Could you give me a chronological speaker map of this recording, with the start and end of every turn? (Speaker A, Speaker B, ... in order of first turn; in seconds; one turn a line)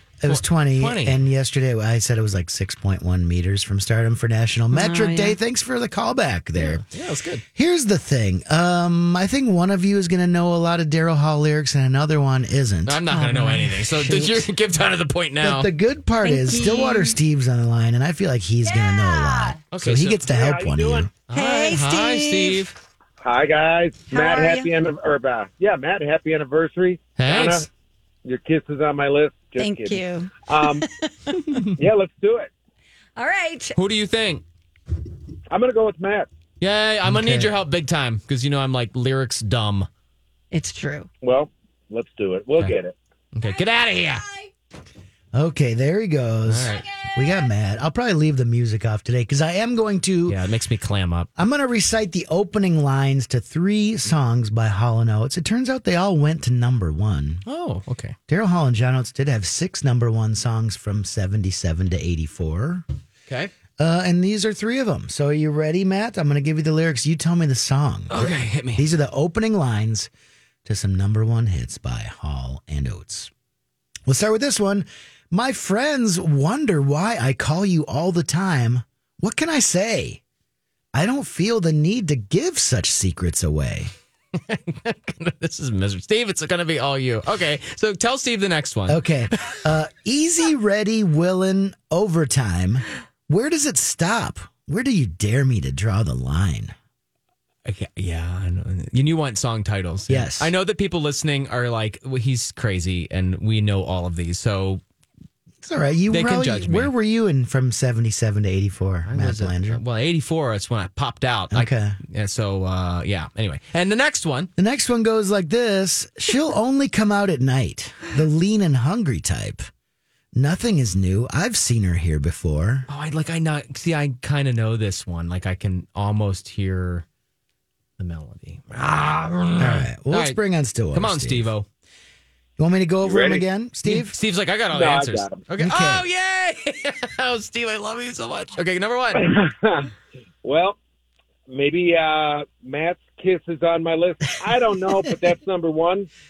Speaker A: 0.2-6.8
Speaker B: 0.3-1.2
Speaker C: 4.7-5.4
Speaker B: 6.6-7.4
Speaker A: 7.6-13.0
Speaker B: 12.9-15.7
Speaker C: 13.1-14.4
Speaker A: 15.4-21.1
Speaker C: 16.2-17.2
Speaker C: 18.6-19.6
Speaker B: 19.7-20.2
Speaker D: 20.3-21.1
Speaker B: 21.3-22.8
Speaker C: 21.3-22.6
Speaker D: 23.2-27.7
Speaker C: 24.1-24.7
Speaker B: 27.2-27.7
Speaker D: 28.2-30.9
Speaker C: 29.6-31.7
Speaker D: 31.8-32.5
Speaker C: 33.2-33.8
Speaker B: 33.8-34.4
Speaker D: 35.5-36.3
Speaker B: 36.6-39.9
Speaker A: 37.1-37.5
Speaker C: 40.5-41.1
Speaker D: 41.2-43.0
Speaker B: 43.4-44.2
Speaker A: 45.3-50.4
Speaker B: 46.5-46.9
Speaker B: 50.3-51.3
Speaker A: 51.4-57.4
Speaker B: 57.5-58.2
Speaker A: 58.3-62.9
Speaker A: 63.8-70.1
Speaker B: 68.1-68.9
Speaker A: 70.7-73.3
Speaker A: 74.1-80.2
Speaker A: 80.9-83.9
Speaker B: 84.4-89.6
Speaker A: 88.9-96.7
Speaker B: 97.7-104.8
Speaker A: 100.1-100.5
Speaker A: 105.6-109.8
Speaker B: 106.1-106.9
Speaker B: 109.1-114.5
Speaker A: 111.5-112.0
Speaker A: 114.6-119.7
Speaker A: 120.3-122.9
Speaker B: 122.9-127.0
Speaker B: 128.0-130.4
Speaker A: 129.6-131.5
Speaker B: 130.9-131.7
Speaker A: 132.6-134.1
Speaker D: 133.0-133.4
Speaker B: 133.8-139.3
Speaker D: 134.7-135.4
Speaker A: 135.6-136.1
Speaker D: 139.1-139.9
Speaker D: 140.4-140.8
Speaker D: 141.5-146.1